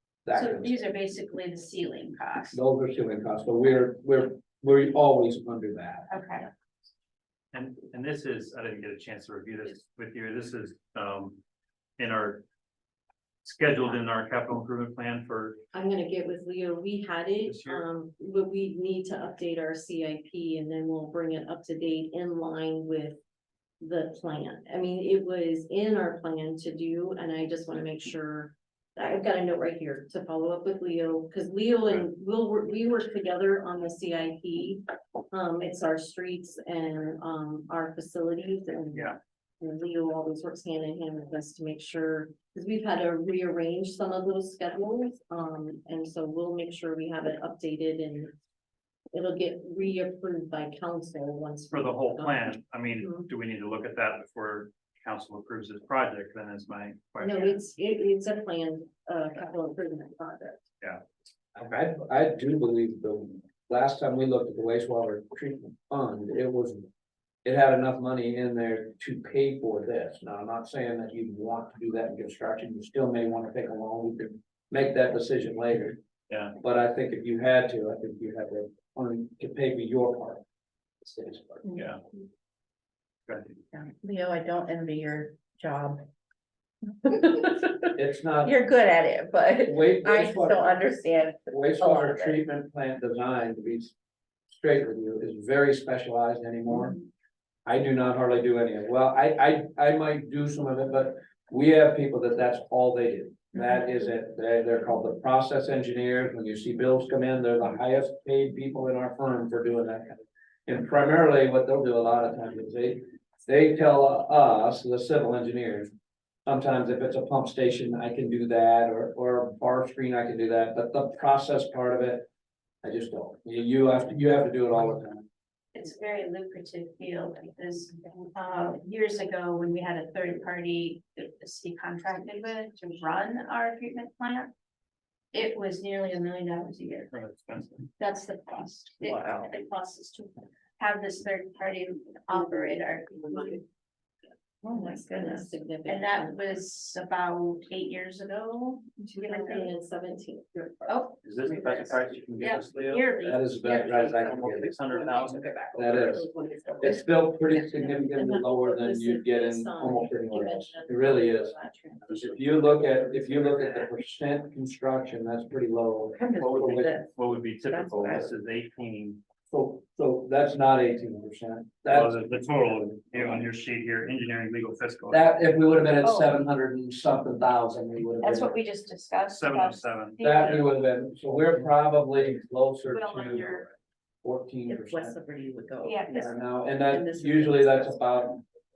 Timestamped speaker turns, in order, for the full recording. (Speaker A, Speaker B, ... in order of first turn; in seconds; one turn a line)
Speaker A: 0.2-0.8
Speaker B: 0.3-2.6
Speaker A: 2.5-6.1
Speaker B: 6.1-6.5
Speaker C: 7.5-11.4
Speaker C: 12.0-12.4
Speaker C: 13.4-15.6
Speaker D: 15.7-23.2
Speaker C: 17.4-17.8
Speaker D: 23.8-48.3
Speaker D: 49.1-53.2
Speaker C: 51.7-57.6
Speaker D: 57.2-60.6
Speaker A: 61.5-66.9
Speaker A: 67.4-76.0
Speaker C: 76.3-76.5
Speaker A: 76.6-80.4
Speaker A: 81.0-81.7
Speaker C: 81.7-82.0
Speaker C: 83.3-83.5
Speaker E: 83.7-86.0
Speaker E: 87.0-87.9
Speaker A: 87.9-88.6
Speaker E: 88.4-92.4
Speaker A: 89.6-90.8
Speaker A: 91.5-93.9
Speaker A: 94.5-97.0
Speaker A: 97.7-115.9
Speaker A: 116.5-122.3
Speaker A: 122.8-125.2
Speaker B: 125.7-134.5
Speaker B: 135.3-137.1
Speaker C: 137.1-137.9
Speaker B: 138.0-143.6
Speaker E: 139.0-139.5
Speaker B: 144.6-149.7
Speaker D: 144.7-146.5
Speaker D: 149.2-151.1
Speaker B: 150.9-154.5
Speaker C: 151.2-153.1
Speaker A: 153.2-154.8
Speaker C: 153.8-156.2
Speaker E: 155.1-157.0
Speaker A: 155.7-156.3
Speaker A: 156.8-161.6
Speaker D: 157.7-162.3
Speaker A: 162.1-166.9
Speaker E: 166.2-167.1
Speaker C: 166.3-169.2
Speaker E: 167.6-168.3
Speaker A: 169.5-172.3
Speaker C: 171.9-175.3
Speaker A: 172.9-173.5
Speaker A: 175.1-178.5
Speaker B: 176.0-176.4
Speaker B: 178.2-180.6
Speaker C: 179.3-180.7
Speaker A: 180.2-183.6
Speaker B: 182.8-183.7
Speaker A: 184.2-185.2
Speaker E: 184.7-186.4
Speaker B: 185.8-186.3
Speaker A: 186.1-188.4
Speaker E: 186.9-188.2